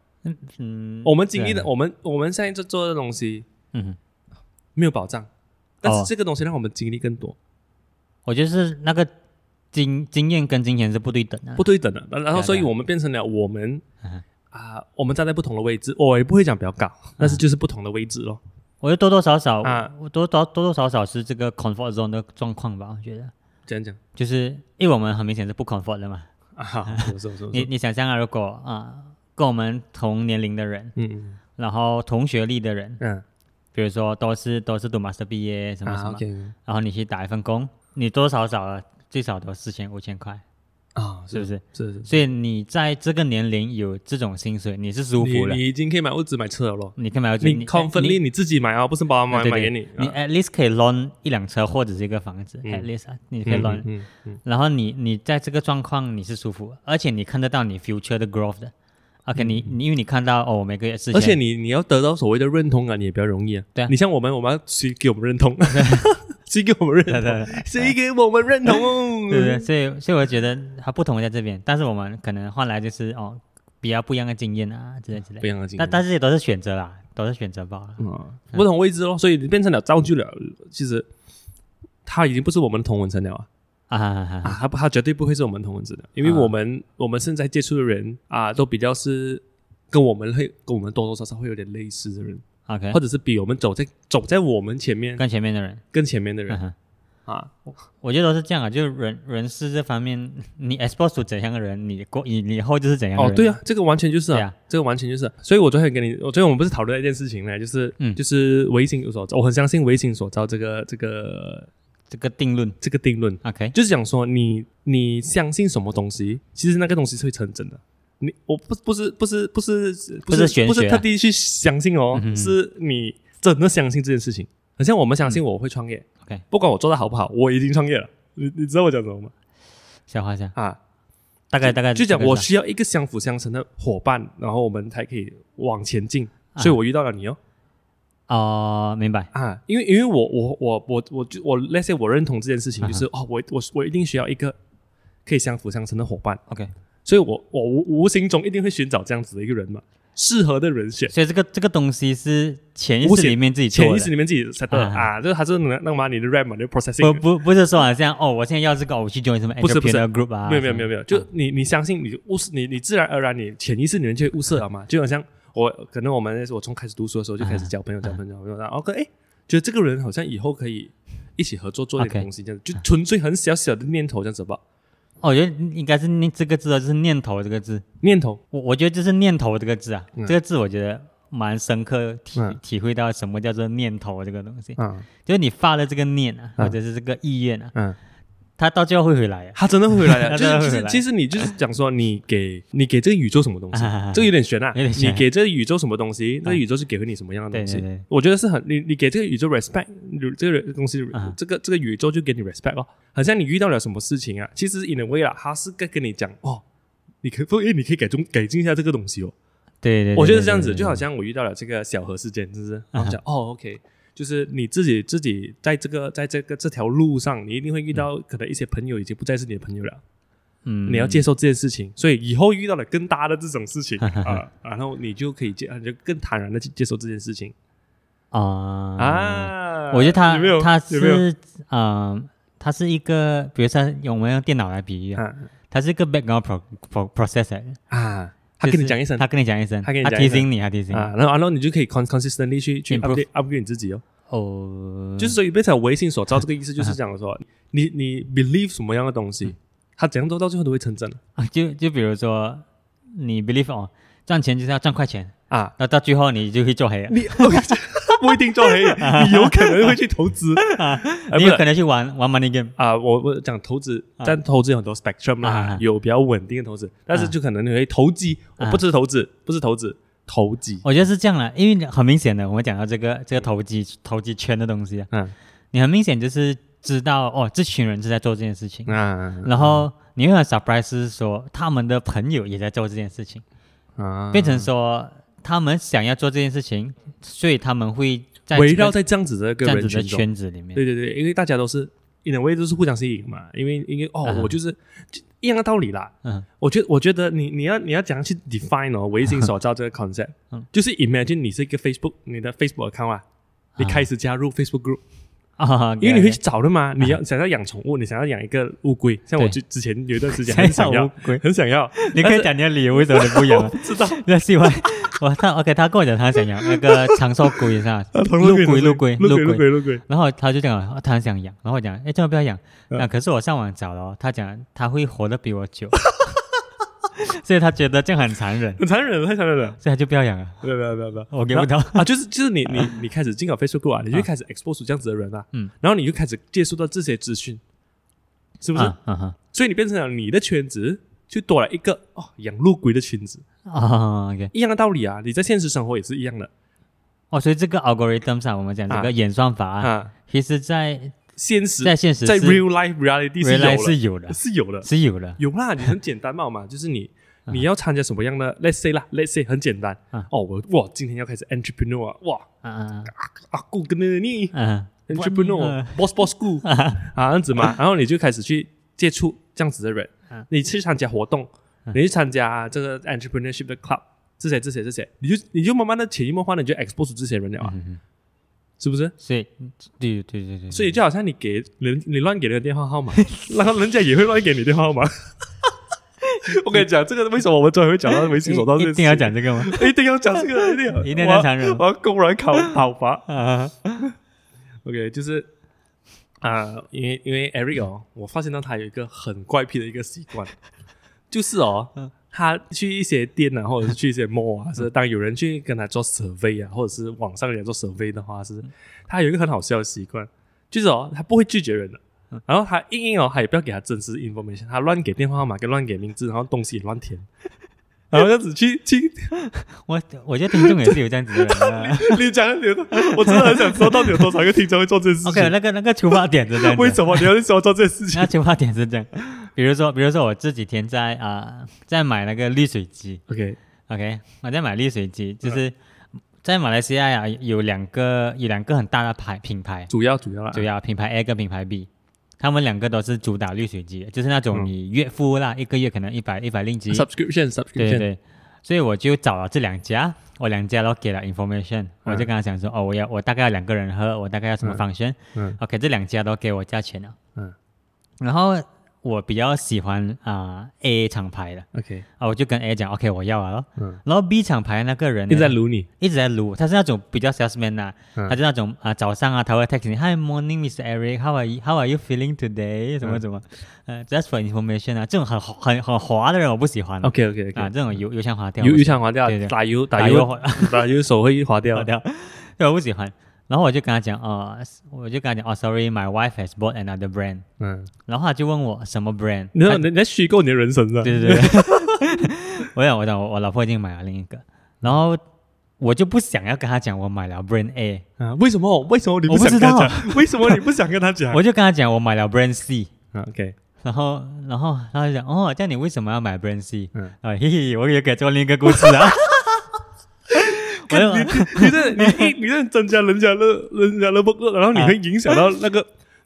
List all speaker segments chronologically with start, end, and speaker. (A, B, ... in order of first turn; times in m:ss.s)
0:00.2-0:01.7 A
0:01.0-0:03.5 B
0:03.7-0:04.0 A
0:04.8-0:05.3 B
0:05.8-0:07.4 B
0:05.8-0:06.1 A
0:08.2-0:09.1 A
0:09.7-0:11.6 A
0:11.6-0:13.8 B
0:12.3-0:12.7 A
0:14.5-0:18.4 B
0:18.8-0:23.3 A
0:19.6-0:19.9 B
0:23.7-0:24.0 B
0:24.1-0:26.3 A
0:26.6-0:27.7 B
0:26.9-0:30.9 A
0:31.0-0:31.4 B
0:31.6-0:33.0 A
0:33.7-0:40.4 A
0:35.8-0:36.5 B
0:40.9-0:42.1 B
0:41.3-0:45.6 A
0:45.2-0:50.2 B
0:47.0-0:48.2 A
0:49.3-0:53.9 A
0:53.4-0:54.4 B
0:54.4-0:58.7 A
0:59.2-1:01.4 A
0:59.4-0:59.7 B
1:01.1-1:09.6 B
1:05.7-1:06.1 A
1:07.1-1:07.9 A
1:09.3-1:18.0 A
1:15.4-1:16.0 B
1:18.0-1:21.1 B
1:22.0-1:23.5 B
1:23.9-1:24.6 A
1:24.4-1:35.2 B
1:26.2-1:26.5 A
1:32.7-1:33.0 A
1:35.2-1:35.8 A
1:35.9-1:36.6 B
1:36.5-1:36.7 A
1:37.3-1:37.5 B
1:38.0-1:43.6 A
1:43.2-1:51.7 B
1:52.1-1:52.8 A
1:52.8-2:09.3 B
1:53.4-1:53.7 A
2:00.3-2:01.0 A
2:02.1-2:02.6 A
2:10.1-2:10.5 A
2:11.5-2:12.5 A
2:11.6-2:17.4 B
2:18.3-2:19.3 A
2:19.3-2:24.6 B
2:25.2-2:26.4 B
2:27.0-2:31.1 B
2:31.1-2:34.1 A
2:33.0-2:37.2 B
2:34.7-2:35.1 A
2:37.0-2:41.2 A
2:39.6-2:54.6 B
2:47.4-2:48.2 A
2:52.0-2:52.2 A
2:55.2-2:57.8 A
2:58.0-2:58.4 B
2:58.5-3:07.7 A
3:04.8-3:05.1 B
3:08.6-3:11.5 A
3:09.5-3:26.6 B
3:13.7-3:15.2 A
3:17.5-3:18.0 A
3:27.2-3:29.3 B
3:29.8-3:31.0 A
3:30.1-3:40.0 B
3:40.6-3:41.2 A
3:40.9-3:47.5 B
3:44.0-3:44.4 A
3:48.3-3:57.8 A
3:49.0-3:51.2 B
3:55.2-3:55.5 B
3:57.9-3:59.2 B
3:58.6-4:01.1 A
3:59.8-4:04.0 B
4:02.9-4:03.2 A
4:04.3-4:05.4 A
4:05.2-4:11.2 B
4:11.4-4:17.7 A
4:15.5-4:15.7 B
4:17.1-4:21.6 B
4:18.8-4:20.0 A
4:20.6-4:22.7 A
4:22.8-4:30.8 B
4:25.4-4:25.8 A
4:30.8-4:35.1 A
4:35.7-4:43.4 A
4:38.9-4:39.8 B
4:44.0-4:44.7 B
4:44.3-4:49.0 A
4:48.5-5:03.2 B
4:49.6-4:50.8 A
4:54.2-4:54.5 A
5:03.8-5:04.0 A
5:03.8-5:05.0 B
5:05.6-5:06.4 A
5:06.0-5:14.2 B
5:10.3-5:11.4 A
5:11.9-5:26.0 A
5:16.6-5:17.1 B
5:18.1-5:20.0 B
5:27.1-5:28.8 A
5:28.8-5:29.8 B
5:29.8-5:30.6 A
5:30.6-5:37.6 B
5:31.3-5:32.1 A
5:38.6-5:39.0 B
5:38.7-5:39.4 A
5:39.5-5:43.4 B
5:43.7-5:44.5 A
5:44.5-5:46.5 B
5:47.3-5:51.2 A
5:49.8-5:50.1 B
5:51.4-6:02.5 B
5:51.8-5:52.6 A
5:53.4-5:55.4 A
6:02.6-6:03.1 A
6:03.1-6:04.5 B
6:04.5-6:06.0 A
6:05.1-6:17.7 B
6:06.6-6:07.1 A
6:17.6-6:18.0 A
6:18.8-6:19.1 B
6:19.2-6:21.0 A
6:20.7-6:25.7 B
6:23.2-6:23.5 A
6:26.4-6:33.3 B
6:26.5-6:26.8 A
6:28.4-6:29.9 A
6:30.6-6:31.8 A
6:33.3-6:34.1 A
6:34.8-6:35.5 B
6:36.4-6:40.5 B
6:41.3-6:57.2 B
6:58.1-6:59.3 B
6:59.6-7:02.2 A
7:00.6-7:05.5 B
7:03.0-7:04.3 A
7:05.2-7:07.3 A
7:06.5-7:08.3 B
7:08.1-7:13.2 A
7:13.3-7:13.6 B
7:13.9-7:15.7 A
7:16.4-7:19.9 A
7:19.9-7:20.6 B
7:20.5-7:21.9 A
7:22.4-7:27.1 A
7:26.9-7:28.0 B
7:27.8-7:37.2 A
7:38.2-7:41.7 A
7:41.7-7:42.0 B
7:42.2-8:00.8 A
7:45.3-7:45.9 B
7:57.0-7:57.7 B
7:58.6-8:01.9 B
8:01.7-8:07.4 A
8:07.6-8:07.9 B
8:08.1-8:09.8 A
8:09.5-8:12.1 B
8:11.0-8:15.2 A
8:15.8-8:18.0 A
8:18.2-8:21.4 B
8:19.3-8:20.6 A
8:21.3-8:22.9 A
8:23.1-8:23.6 B
8:23.8-8:29.7 A
8:28.8-8:29.1 B
8:30.3-8:32.3 A
8:30.8-8:35.9 B
8:34.7-8:35.4 A